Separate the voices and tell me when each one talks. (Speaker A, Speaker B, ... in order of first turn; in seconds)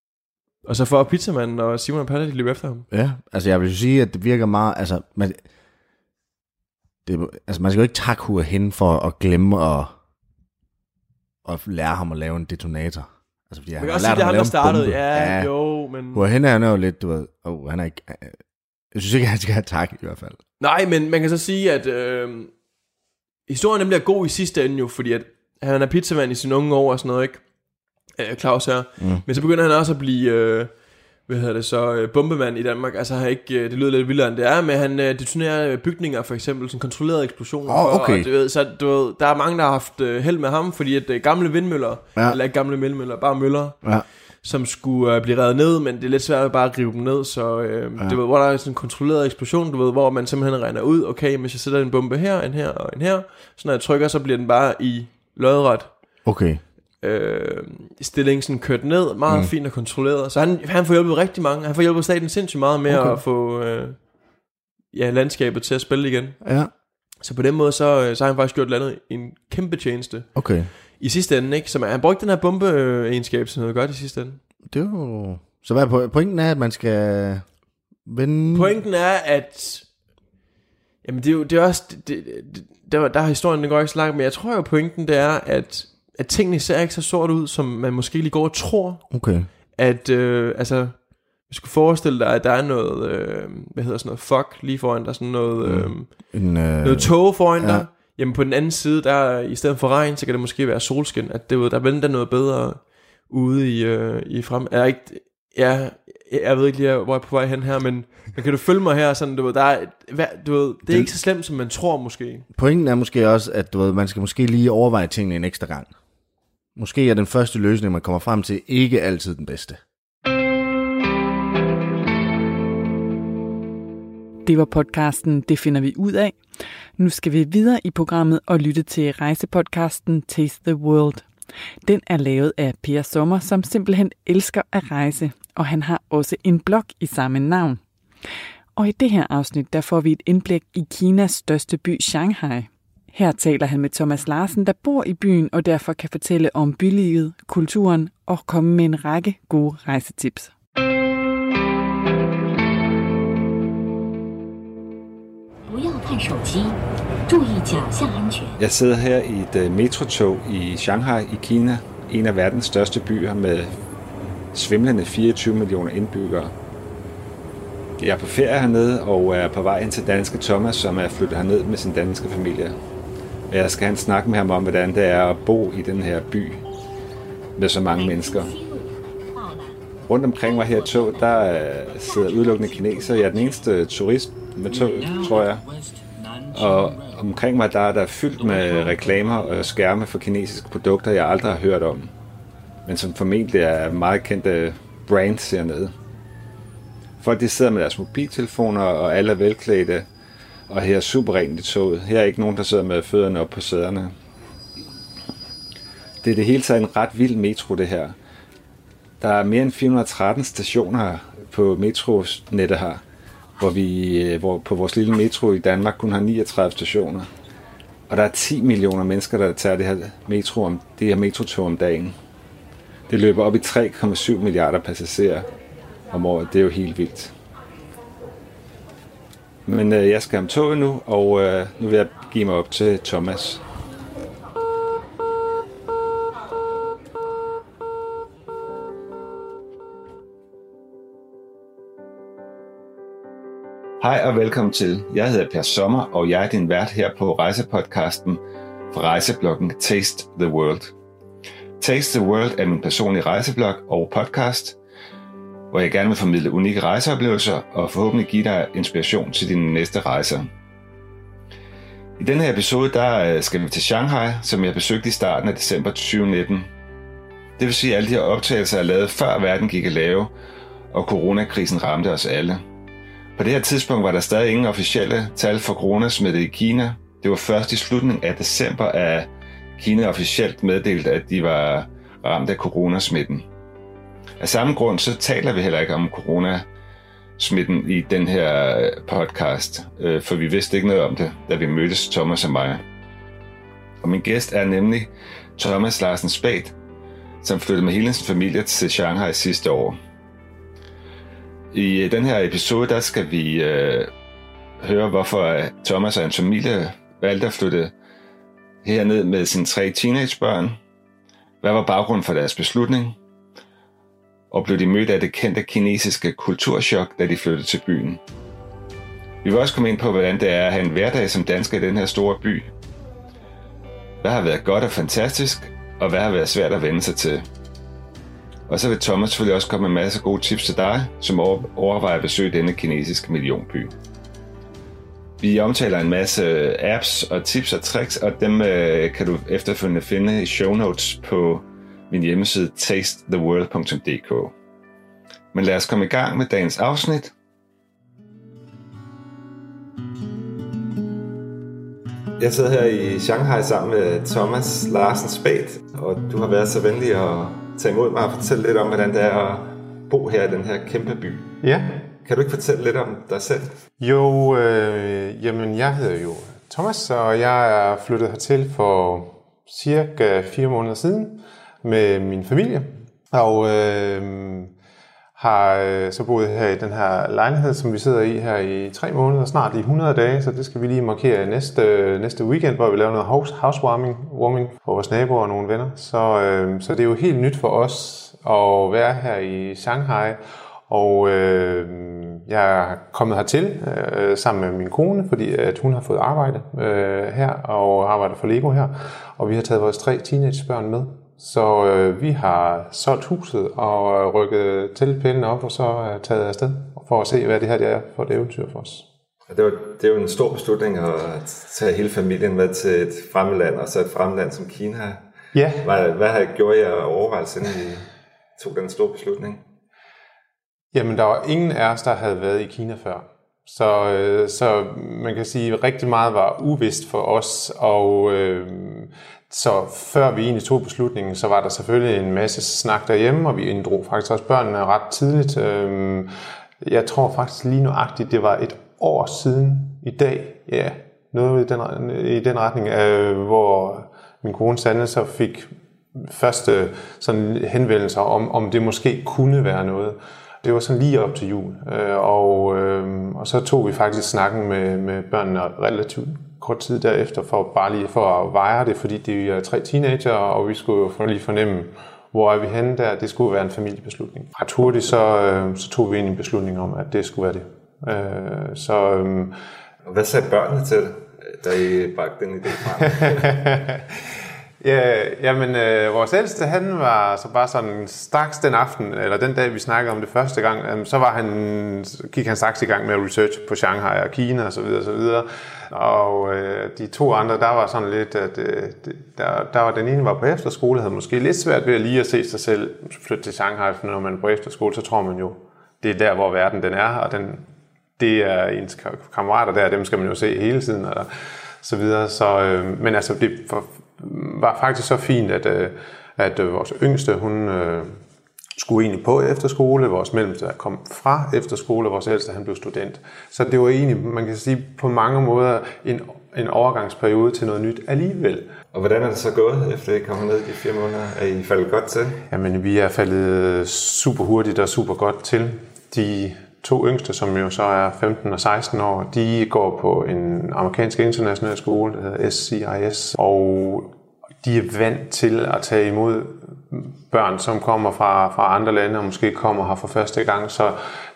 Speaker A: 0.6-2.9, 13.8-16.3, 20.6-22.5, 23.5-27.4, 28.1-55.9, 57.0-64.1, 64.9-66.4, 67.2-74.4, 78.5-79.9, 81.0-112.5
Speaker B: 2.9-5.4, 7.0-9.9, 11.4-15.5, 16.1-18.4, 18.9-20.4, 29.0-29.2, 37.6-38.3, 56.2-56.6, 62.9-63.2, 66.4-66.7, 70.3-70.7, 74.7-77.4, 78.0-78.8, 89.1-89.5, 95.6-97.9, 112.5-115.9, 116.8-119.8
Speaker C: 124.5-126.3, 127.0-131.2, 131.8-137.8, 138.8-150.5
Speaker D: 155.7-158.6, 177.9-179.8, 180.3-183.7, 185.4-186.5
Speaker E: 158.6-163.7, 164.5-166.5, 168.0-172.7, 173.5-176.6, 177.6-178.5, 180.1-185.7, 186.5-192.1, 192.9-195.9, 197.2-200.1, 200.7-204.1, 206.2-208.1, 209.2-213.0, 213.6-217.3, 218.1-222.1, 223.1-225.4, 226.1-227.3, 229.7-233.6, 244.0-248.4, 248.9-250.9, 251.8-254.8, 255.7-260.5, 262.2-266.7, 267.6-270.3, 270.9-272.6, 273.4-283.4, 284.4-286.6, 287.4-292.8, 294.0-296.7, 297.4-300.0, 301.7-304.1, 304.8-307.9, 308.8-310.8, 311.6-313.2, 314.5-318.2, 319.4-322.7, 324.2-327.4, 328.7-333.9, 335.4-344.5, 345.5-347.3, 352.4-361.5, 362.2-363.7, 409.5-415.2, 415.8-418.0, 418.6-419.6, 470.1-473.4, 518.9-522.4
Speaker F: 361.6-362.0, 364.0-374.7, 375.4-409.0, 415.5-415.9, 420.9-436.3, 436.8-469.5, 473.0-474.2, 474.8-497.6, 498.2-501.3, 501.8-508.1, 508.8-518.7, 522.5-534.1, 534.6-541.0